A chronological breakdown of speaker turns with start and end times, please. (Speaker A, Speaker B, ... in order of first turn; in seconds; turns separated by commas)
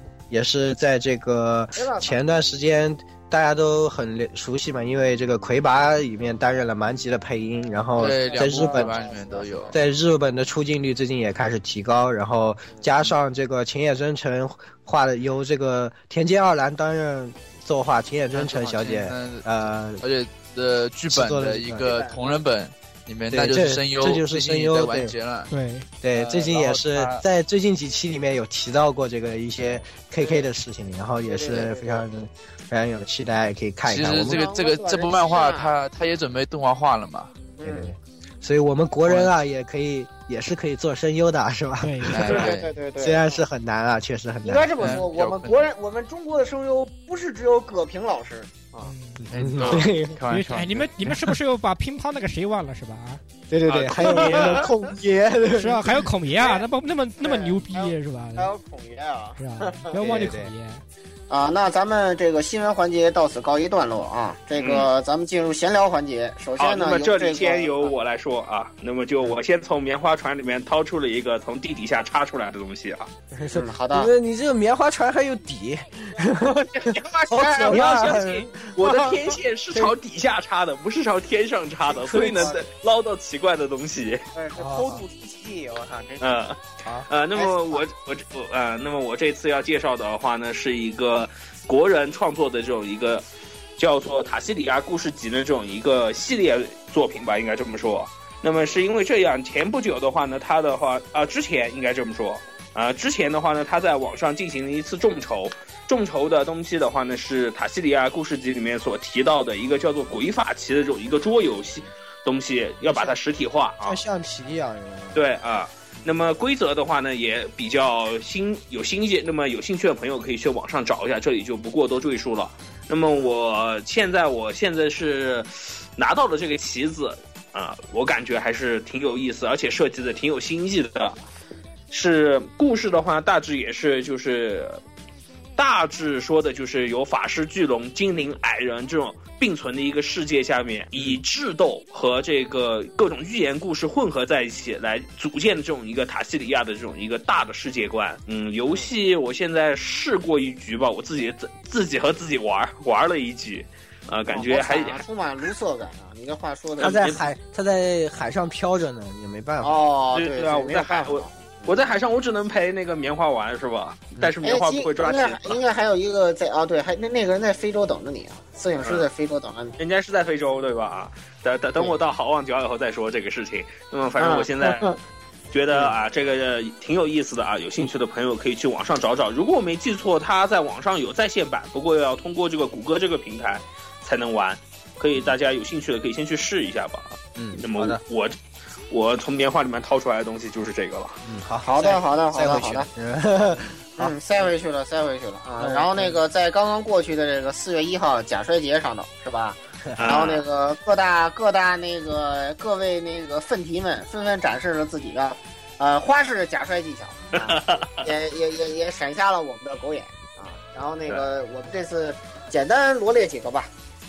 Speaker A: 0.3-9.0, Speaker B: 1.8-2.2, Speaker C: 8.0-9.8, Speaker B: 8.0-9.8, Speaker A: 9.7-20.0, Speaker B: 12.7-13.1, Speaker C: 18.3-25.5, Speaker A: 21.1-21.9, Speaker B: 21.8-22.4, Speaker A: 23.3-25.1, Speaker D: 25.5-25.9, Speaker A: 26.0-34.5, Speaker C: 26.1-27.2, Speaker B: 30.2-30.4, Speaker B: 31.2-32.0, Speaker C: 33.9-37.3, Speaker B: 34.2-35.7, Speaker B: 37.6-37.9, Speaker A: 37.6-45.1, Speaker D: 41.8-42.3, Speaker C: 42.1-42.7, Speaker B: 42.2-43.4, Speaker B: 44.4-48.9, Speaker C: 44.8-45.7, Speaker D: 48.8-49.2, Speaker A: 49.2-50.2, Speaker C: 49.3-50.9, Speaker E: 49.6-49.9, Speaker D: 50.3-53.2, Speaker A: 53.5-56.1, Speaker E: 53.7-54.6, Speaker B: 54.0-54.7, Speaker D: 55.5-58.5, Speaker B: 56.4-56.6, Speaker B: 57.2-60.0, Speaker D: 59.4-60.8, Speaker A: 59.9-60.5, Speaker B: 61.3-67.9, Speaker E: 64.6-64.9, Speaker E: 66.6-73.1, Speaker A: 73.3-78.8, Speaker B: 73.5-74.1, Speaker B: 76.2-78.2, Speaker E: 77.7-84.2, Speaker B: 78.8-79.1, Speaker B: 81.9-82.7, Speaker A: 82.0-82.6, Speaker B: 84.3-86.4, Speaker D: 84.6-84.9, Speaker E: 86.2-93.2, Speaker B: 87.3-87.8, Speaker E: 93.8-114.0, Speaker A: 112.8-113.2, Speaker A: 113.8-115.2, Speaker E: 115.1-131.2, Speaker E: 131.9-134.8, Speaker E: 135.6-155.1, Speaker A: 140.9-141.2, Speaker B: 154.3-157.2, Speaker E: 156.8-157.2, Speaker A: 156.8-159.8, Speaker B: 159.6-161.9, Speaker E: 160.1-165.6, Speaker B: 164.4-169.7, Speaker E: 168.8-169.1, Speaker E: 169.8-174.9, Speaker B: 174.2-175.0, Speaker E: 175.5-188.3, Speaker A: 187.3-188.0, Speaker E: 188.9-191.2, Speaker A: 191.2-194.5, Speaker B: 191.6-192.9, Speaker B: 194.0-213.7, Speaker A: 195.6-196.2, Speaker A: 199.8-200.2, Speaker E: 200.0-200.4, Speaker E: 207.3-208.1